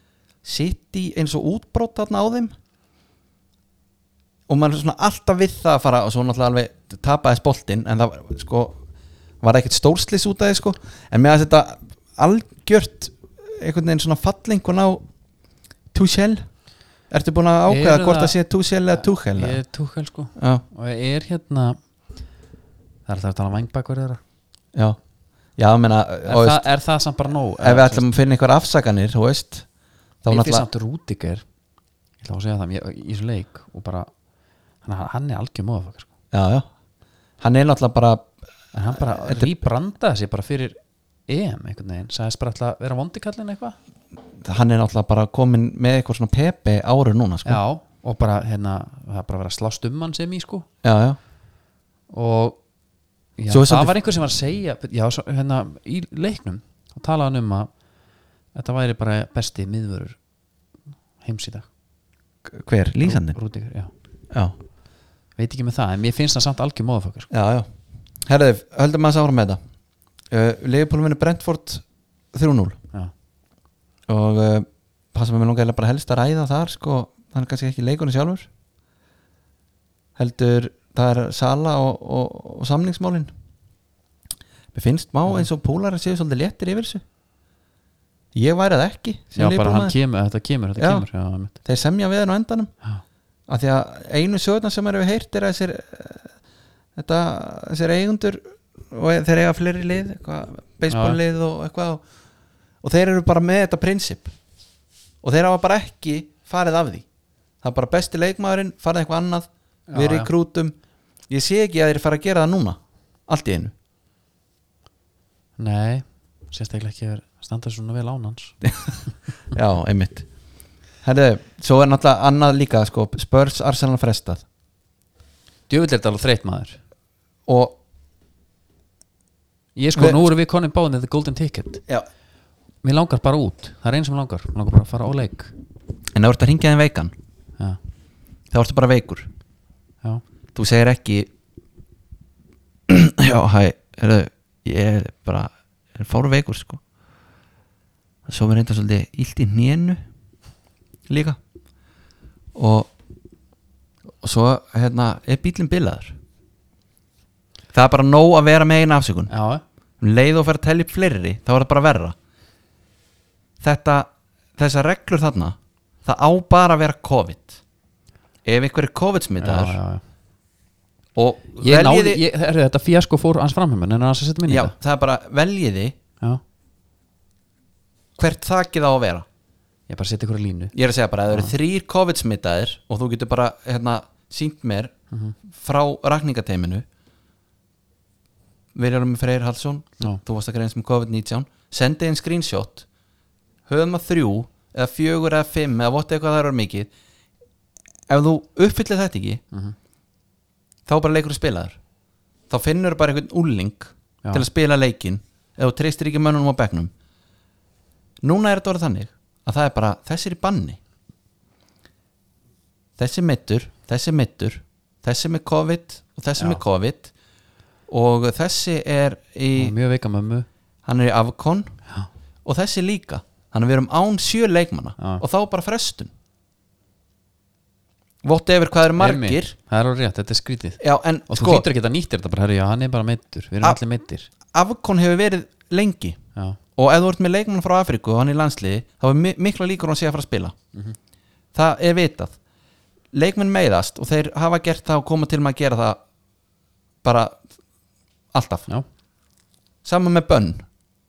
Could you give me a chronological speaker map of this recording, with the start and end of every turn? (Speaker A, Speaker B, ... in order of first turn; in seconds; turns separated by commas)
Speaker A: 0.4-2.5, Speaker A: 4.5-8.8, Speaker A: 9.4-15.0, Speaker A: 15.9-16.5, Speaker A: 17.1-19.6, Speaker B: 17.7-18.4, Speaker B: 19.0-21.8, Speaker A: 20.4-20.6, Speaker B: 23.1-24.2, Speaker A: 25.6-26.6, Speaker B: 26.2-28.0, Speaker A: 27.6-29.6, Speaker A: 30.2-30.6, Speaker B: 30.3-31.4, Speaker B: 32.2-34.1, Speaker B: 34.8-36.1, Speaker A: 36.3-36.7, Speaker A: 37.4-38.3, Speaker B: 38.7-40.8, Speaker A: 38.9-39.6, Speaker B: 41.3-43.8, Speaker A: 44.4-47.6, Speaker B: 47.4-50.7, Speaker A: 50.8-51.2, Speaker B: 52.1-52.6, Speaker B: 53.4-57.7, Speaker A: 53.5-53.9, Speaker B: 58.5-60.2, Speaker B: 61.2-61.7, Speaker A: 62.5-63.4, Speaker B: 63.0-63.9, Speaker B: 65.4-67.3, Speaker A: 67.3-67.7, Speaker A: 68.2-69.6, Speaker A: 70.3-72.8, Speaker A: 74.1-78.5, Speaker A: 80.2-83.3, Speaker A: 84.7-87.0, Speaker A: 88.3-90.0, Speaker B: 89.3-91.5, Speaker A: 90.8-91.1, Speaker A: 91.6-92.7, Speaker A: 93.5-96.3, Speaker A: 97.0-102.0, Speaker B: 100.9-101.2, Speaker A: 102.8-104.3, Speaker A: 105.2-107.0, Speaker A: 107.6-110.7, Speaker B: 109.9-110.3, Speaker A: 111.3-113.7, Speaker B: 115.6-118.6, Speaker A: 119.5-120.3, Speaker A: 121.0-124.4, Speaker B: 125.7-126.8, Speaker A: 127.5-127.8, Speaker B: 129.8-131.8, Speaker A: 129.9-130.2, Speaker B: 132.8-135.5, Speaker A: 136.1-137.1, Speaker A: 138.5-139.3, Speaker A: 140.5-141.3, Speaker A: 142.9-146.8, Speaker A: 148.2-150.0, Speaker A: 151.1-151.4, Speaker A: 152.5-152.9, Speaker A: 154.2-156.1, Speaker A: 157.7-159.3, Speaker B: 159.3-159.6, Speaker A: 160.0-162.2, Speaker A: 163.6-167.6, Speaker A: 168.4-169.8, Speaker B: 169.4-170.0, Speaker A: 171.2-172.2, Speaker B: 171.6-174.7, Speaker A: 174.5-175.9, Speaker A: 178.2-179.2, Speaker B: 179.9-180.7, Speaker A: 180.7-184.9, Speaker A: 185.5-186.8, Speaker A: 188.7-192.8, Speaker A: 193.7-196.9, Speaker A: 198.1-199.4, Speaker A: 200.8-201.8, Speaker A: 202.5-206.9, Speaker A: 208.2-210.8, Speaker A: 213.0-217.1, Speaker A: 217.9-219.7, Speaker B: 219.5-220.5, Speaker A: 220.8-221.8, Speaker A: 222.4-226.1, Speaker B: 225.0-225.2, Speaker A: 228.2-229.5, Speaker B: 229.0-234.3, Speaker A: 230.8-231.7, Speaker A: 234.5-236.2, Speaker A: 236.8-240.5, Speaker A: 241.5-242.3, Speaker A: 243.1-246.0, Speaker A: 247.0-247.4, Speaker A: 248.3-248.7, Speaker A: 249.8-250.7